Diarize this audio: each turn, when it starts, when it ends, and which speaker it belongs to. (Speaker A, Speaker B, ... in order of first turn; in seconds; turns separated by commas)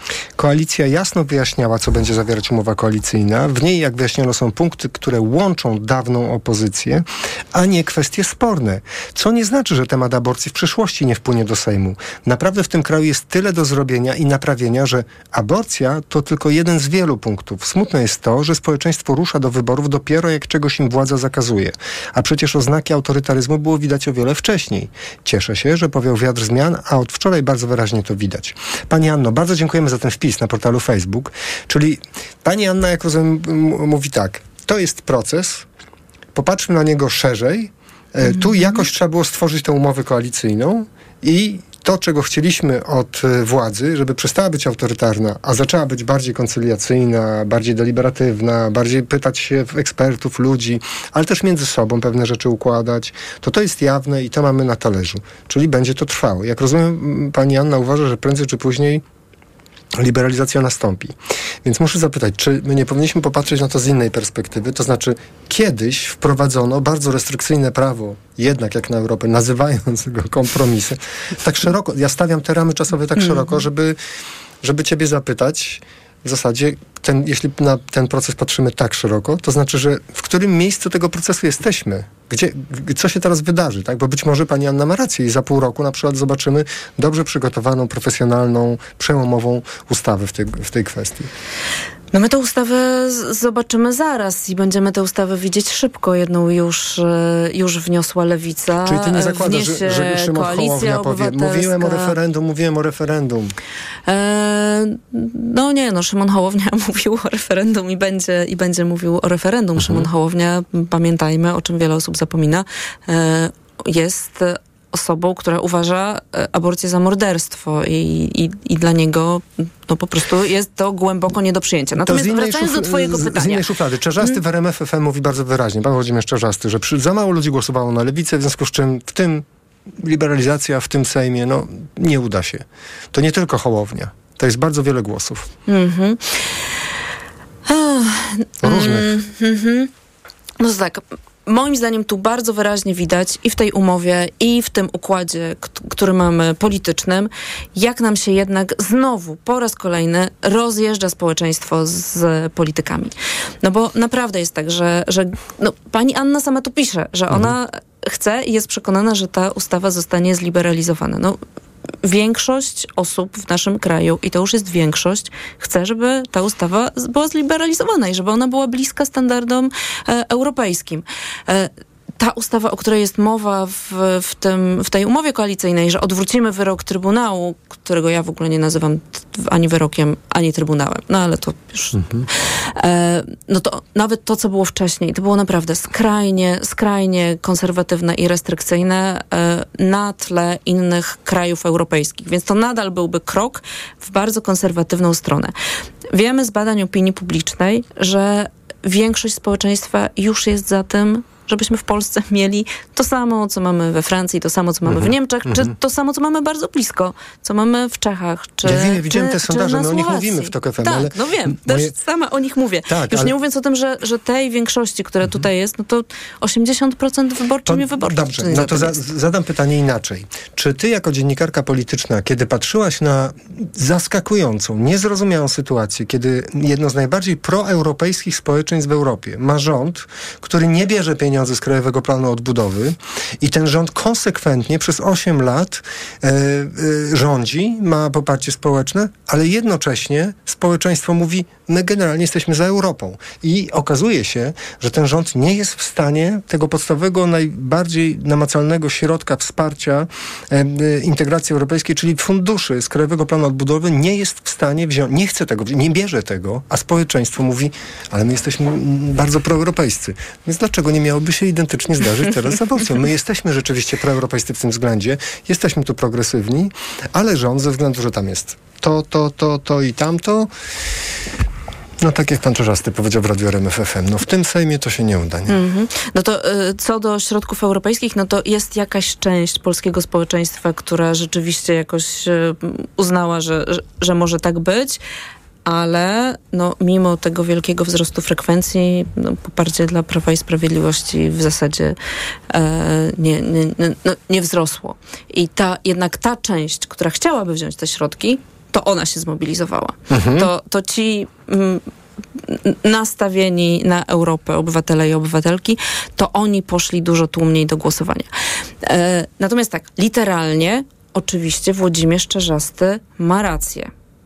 Speaker A: 0.4-35.6, Speaker A: 36.3-59.0, Speaker B: 38.2-38.8, Speaker A: 60.0-74.0, Speaker B: 73.2-73.6, Speaker A: 74.6-91.3, Speaker B: 92.1-102.1, Speaker A: 98.8-103.5, Speaker B: 104.1-123.6, Speaker A: 109.8-110.1, Speaker A: 121.9-129.4, Speaker A: 130.0-135.5, Speaker B: 135.7-136.4, Speaker B: 137.7-139.9, Speaker A: 138.6-139.1, Speaker B: 140.6-161.4, Speaker A: 157.3-157.6, Speaker B: 162.0-182.1, Speaker A: 181.9-182.2, Speaker B: 182.8-195.5, Speaker B: 196.1-218.9, Speaker A: 204.8-205.7, Speaker A: 208.6-211.9, Speaker A: 212.9-213.3, Speaker A: 217.7-270.5, Speaker A: 272.0-275.6, Speaker B: 275.5-285.0, Speaker B: 285.6-291.9, Speaker B: 292.5-301.8, Speaker A: 300.1-300.5, Speaker B: 302.4-308.3, Speaker B: 308.8-313.9